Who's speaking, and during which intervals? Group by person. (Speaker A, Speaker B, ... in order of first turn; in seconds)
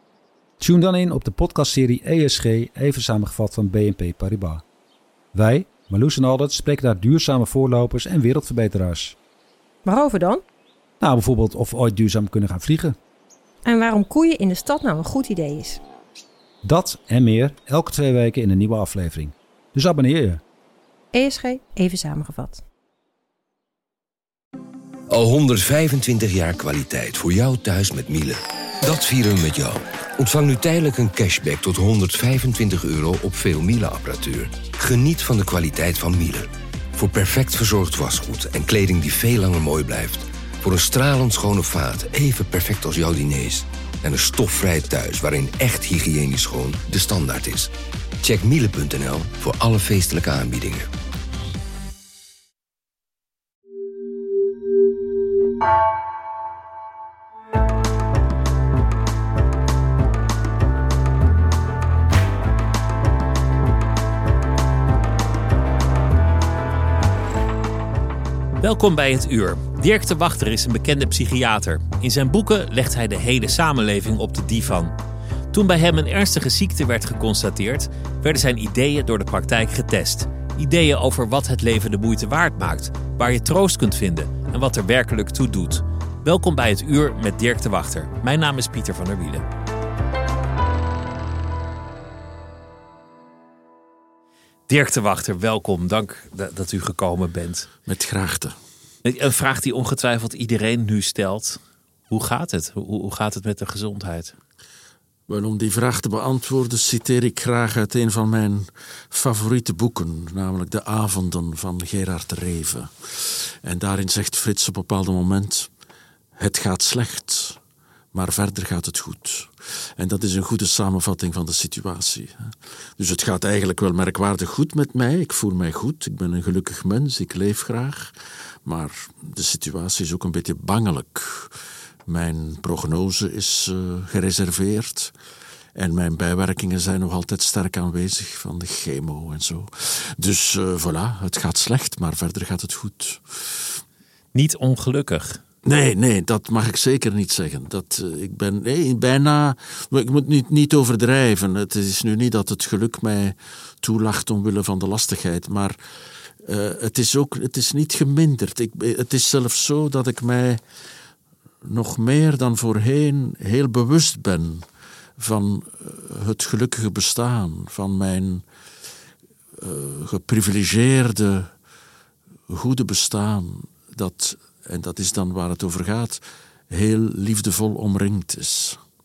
Speaker A: 0.6-4.7, 5.3-9.2, 11.0-13.0, 16.6-20.4
Speaker B: 9.8-10.4, 13.7-15.8, 21.1-22.6
Speaker C: 25.1-50.9
Speaker D: 68.6-75.0, 75.5-89.5, 94.7-97.7, 99.0-104.3, 144.3-145.4
Speaker E: 97.9-98.6, 105.3-115.7, 116.4-117.6, 118.1-128.1, 128.7-131.5, 132.1-135.1, 135.8-143.8, 145.7-160.6, 161.7-164.7, 165.2-168.4, 169.6-171.5, 172.5-178.8